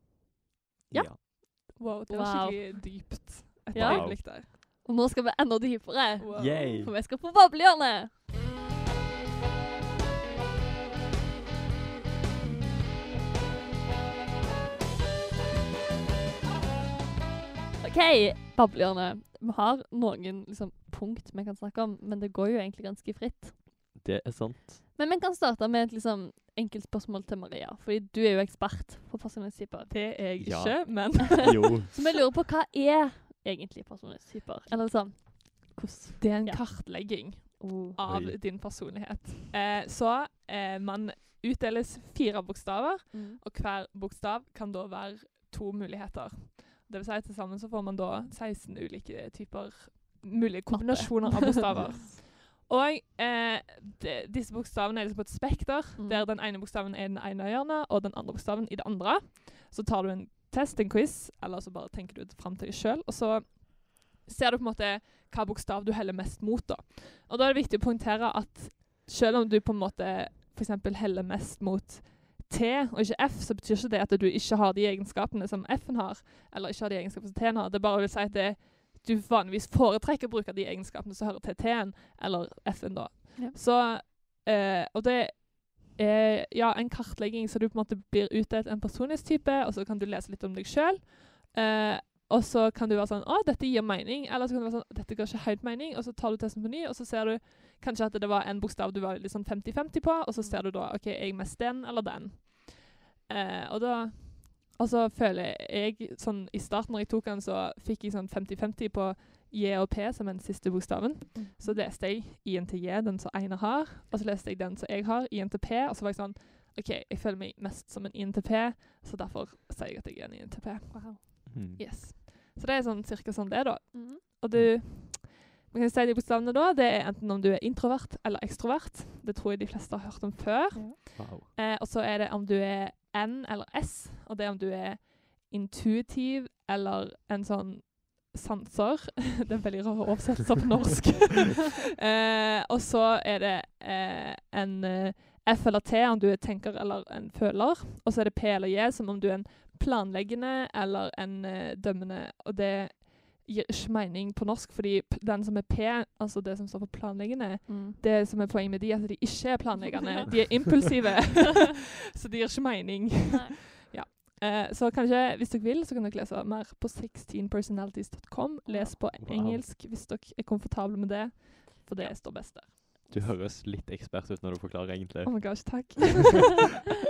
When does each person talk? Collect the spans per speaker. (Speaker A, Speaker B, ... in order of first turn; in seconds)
Speaker A: 0.9-1.2, 3.7-4.2, 6.3-6.9, 23.9-24.8, 30.4-31.9, 38.0-38.4, 51.7-52.0, 121.5-121.8, 131.2-131.5, 169.2-169.6, 173.1-176.0
Speaker B: 0.9-3.1, 3.7-8.1, 17.8-23.6, 24.9-30.1, 31.9-38.0, 43.1-43.4, 50.7-52.1, 56.0-56.2, 100.4-100.6, 111.3-111.8, 120.9-121.2, 123.9-124.2, 157.7-158.0, 160.0-160.3, 163.3-163.6, 168.7-169.0
Speaker C: 1.8-4.5, 6.2-6.7, 29.9-31.9, 36.2-173.1, 175.2-176.6